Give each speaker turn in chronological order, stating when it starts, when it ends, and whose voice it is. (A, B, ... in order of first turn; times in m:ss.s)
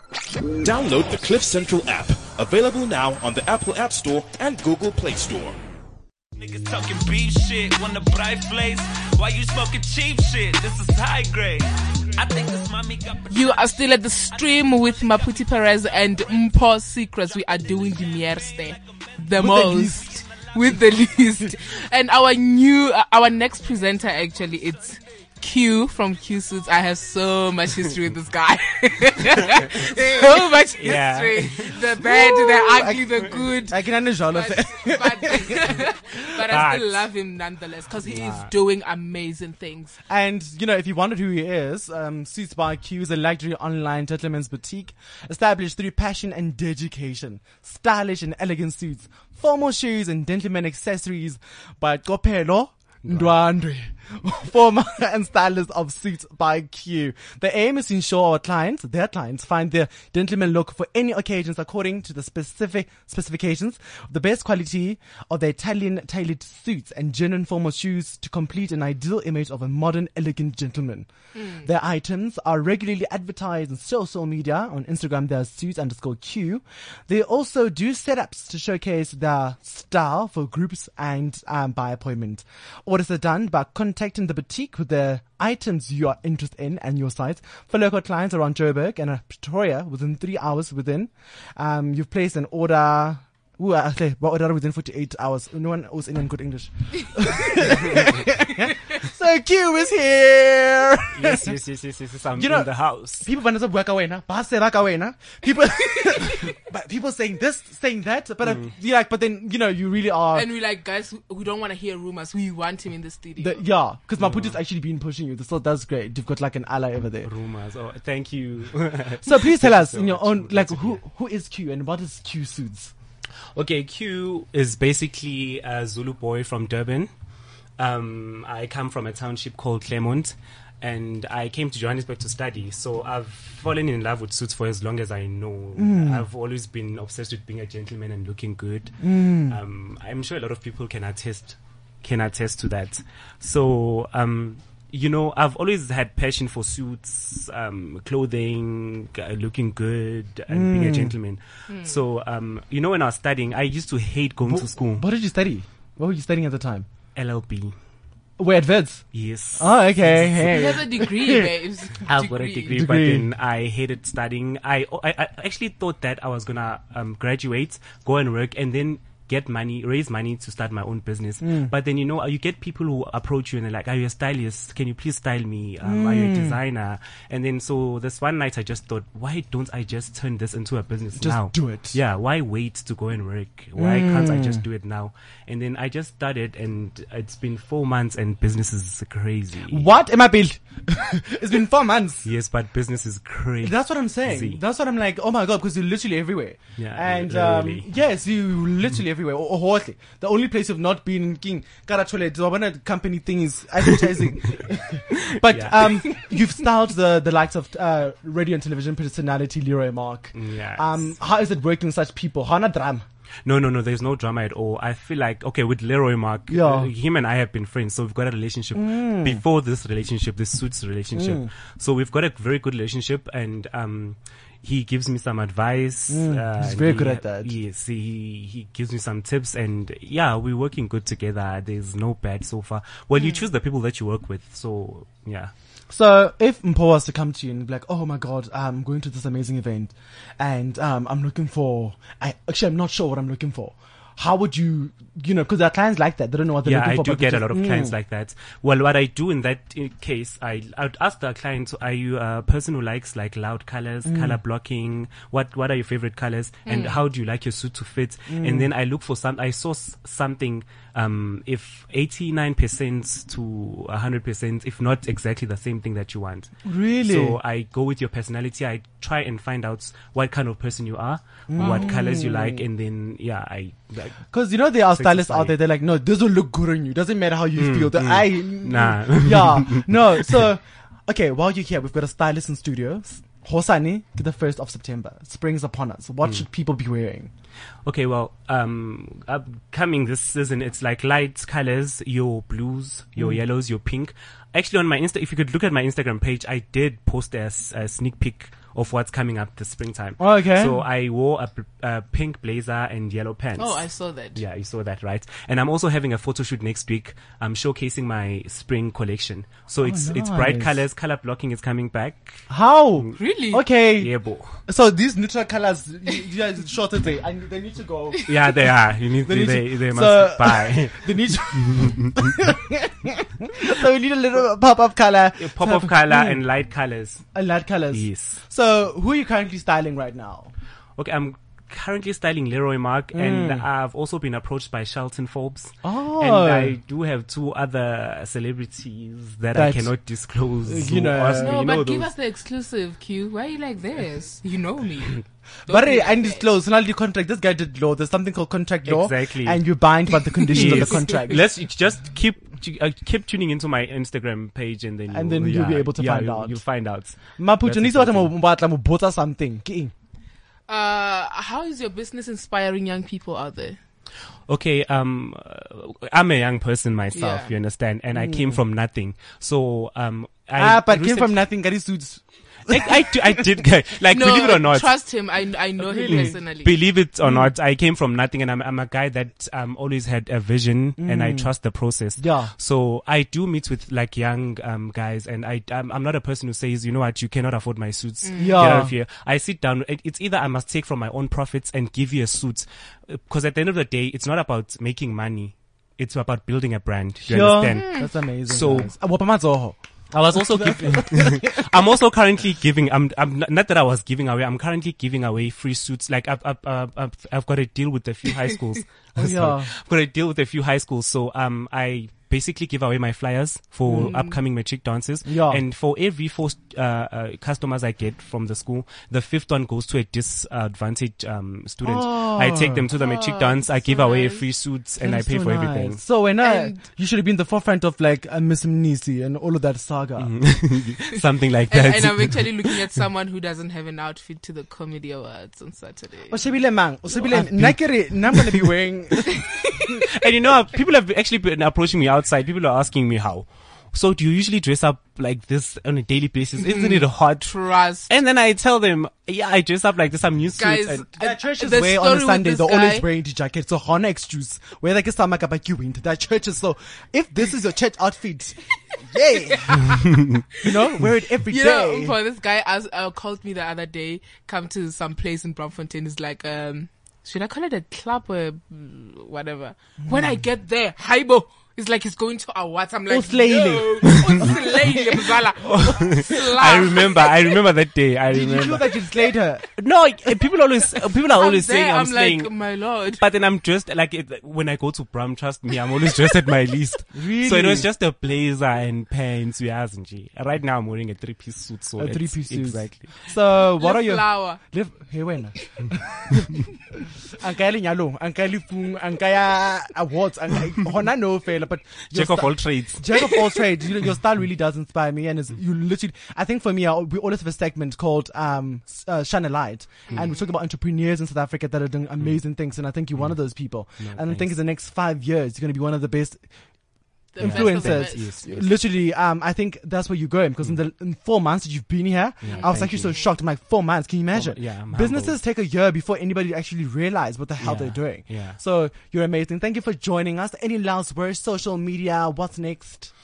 0:00.6-0:05.6 A
0:06.3-0:13.3 B
0:13.3-0:40.0 C
0:19.4-0:20.2 D
0:30.8-0:31.8 E
0:32.5-0:35.8 D
0:36.5-0:37.0 E
0:38.0-0:38.5 E
0:40.1-1:11.1 D
0:53.0-0:53.3 E
1:11.3-1:11.7 C
1:11.6-1:41.6 D
1:41.1-1:43.3 E
1:42.3-1:42.7 D
1:43.2-1:50.5 D
1:48.4-1:48.7 E
1:50.3-1:53.6 C
1:53.4-1:57.3 D
1:54.2-1:54.6 E
1:57.2-2:01.0 E
1:59.2-2:02.9 D
2:03.5-2:07.1 E
2:07.8-2:35.0 E
2:15.8-2:16.2 D
2:19.0-2:19.6 D
2:30.5-2:31.2 D
2:31.7-2:32.0 C
2:34.4-2:36.9 D
2:37.1-2:37.7 E
2:38.4-2:39.0 D
2:39.1-2:40.5 E
2:39.6-2:41.5 D
2:40.4-2:42.8 C
2:42.0-3:09.9 E
2:42.7-2:43.2 D
2:51.4-2:51.7 D
2:55.8-2:56.6 D
3:01.2-3:02.0 D
3:03.8-3:04.6 D
3:09.7-3:12.3 D
3:12.2-3:14.6 E
3:13.6-3:33.0 D
3:16.8-3:17.9 E
3:25.1-3:26.2 E
3:30.3-3:31.1 E
3:33.4-3:55.5 E
3:36.5-3:36.9 D
3:38.7-3:39.4 D
3:41.1-3:41.5 D
3:46.1-3:47.5 D
3:55.9-4:07.9 D
4:06.6-4:34.2 E
4:14.0-4:14.4 D
4:16.6-4:17.1 C
4:18.3-4:18.7 D
4:26.6-4:27.4 D
4:31.5-4:32.6 D
4:31.6-4:32.0 C
4:34.3-4:47.3 D
4:34.8-4:35.6 E
4:37.6-4:40.4 E
4:47.8-5:12.4 E
5:00.2-5:00.8 D
5:03.6-5:04.4 C
5:09.8-5:10.8 D
5:12.5-5:14.1 D
5:13.2-5:13.6 C
5:13.9-5:14.6 E
5:14.7-5:18.3 D
5:18.3-5:22.3 E
5:19.2-5:26.4 D
5:25.4-5:27.2 E
5:27.3-5:30.5 D
5:27.9-5:28.4 E
5:31.0-5:42.1 E
5:33.1-5:33.6 D
5:35.8-5:36.7 D
5:39.5-5:39.9 D
5:40.6-5:41.6 D
5:41.4-5:46.4 C
5:45.7-5:51.4 D
5:48.8-5:49.6 E
5:50.5-5:58.3 E
5:50.5-5:51.2 C
5:55.1-5:56.6 D
5:57.4-5:59.9 D
6:00.7-6:03.8 C
6:04.5-6:11.4 E
6:07.1-6:07.6 C
6:08.1-6:08.6 D
6:10.6-6:13.4 D
6:12.7-6:15.0 E
6:14.1-6:16.8 C
6:15.9-6:16.4 D
6:16.0-6:38.9 E
6:17.2-6:17.5 D
6:21.0-6:21.5 D
6:22.2-6:22.5 D
6:28.2-6:28.7 C
6:28.4-6:28.9 D
6:37.3-6:41.6 D
6:37.7-6:38.1 C
6:40.1-7:06.0 E
6:49.2-6:49.7 D
6:53.9-6:54.1 D
6:53.9-6:54.4 C
6:55.2-6:55.6 D
7:01.8-7:02.9 D
7:03.0-7:04.5 C
7:05.0-7:10.3 D
7:06.4-7:06.8 C
7:10.2-7:12.9 E
7:11.7-7:16.4 C
7:16.3-7:19.3 D
7:17.3-7:18.6 E
7:20.0-7:27.5 E
7:26.6-7:28.1 C
7:28.1-7:31.1 E
7:30.6-7:33.0 C
7:31.2-7:40.0 D
7:39.4-7:40.0 C
7:40.1-7:40.4 E
7:40.6-7:42.2 D
7:41.5-7:57.7 C
7:53.1-7:54.5 D
7:54.0-7:54.5 E
7:55.6-7:58.9 E
7:58.3-7:59.7 D
7:59.8-8:02.5 E
8:00.9-8:03.2 C
8:03.2-8:13.2 E
8:07.1-8:07.9 D
8:12.0-8:15.6 D
8:13.6-8:14.6 C
8:16.1-8:16.6 D
8:17.3-8:36.4 D
8:22.1-8:23.4 E
8:30.1-8:30.5 C
8:33.1-8:33.4 E
8:34.0-8:34.5 E
8:37.3-8:38.6 C
8:37.4-8:38.7 E
8:37.4-8:53.1 D
8:42.4-8:43.2 E
8:42.4-8:43.2 C
8:44.3-8:45.4 E
8:47.6-8:48.6 E